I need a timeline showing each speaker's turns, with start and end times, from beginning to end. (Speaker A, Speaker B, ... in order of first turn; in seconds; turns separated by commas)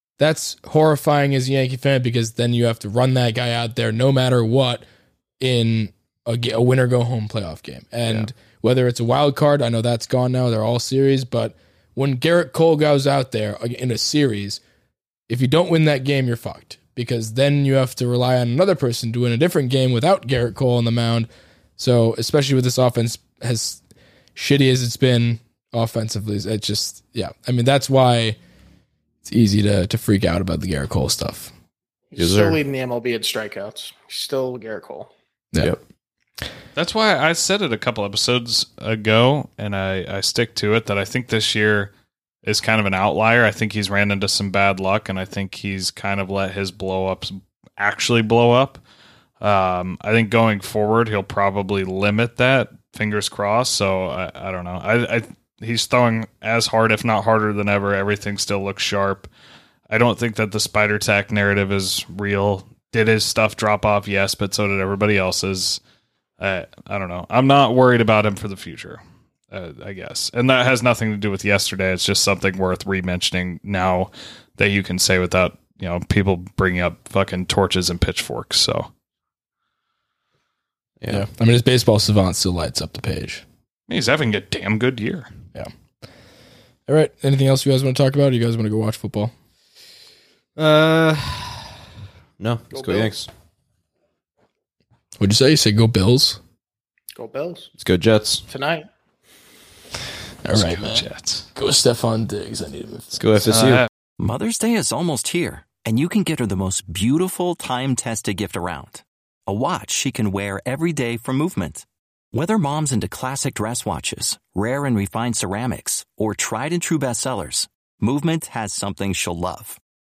Speaker A: 0.2-4.8, Speaker A: 5.4-14.6, Speaker A: 15.3-23.8, Speaker A: 24.4-28.4, Speaker A: 29.2-31.5, Speaker B: 32.1-35.1, Speaker C: 32.2-32.6, Speaker D: 36.8-41.9, Speaker D: 42.4-48.8, Speaker D: 49.4-59.3, Speaker D: 59.9-65.8, Speaker D: 66.4-69.0, Speaker D: 69.5-78.9, Speaker C: 81.0-81.2, Speaker A: 81.1-83.4, Speaker D: 83.9-85.3, Speaker A: 86.9-89.3, Speaker C: 90.6-91.8, Speaker C: 92.4-93.3, Speaker B: 92.7-93.1, Speaker A: 95.2-96.4, Speaker B: 97.2-97.7, Speaker C: 97.8-98.4, Speaker B: 98.5-98.9, Speaker A: 100.5-103.5, Speaker D: 100.5-101.5, Speaker C: 103.2-103.9, Speaker D: 103.5-103.9, Speaker E: 104.2-119.8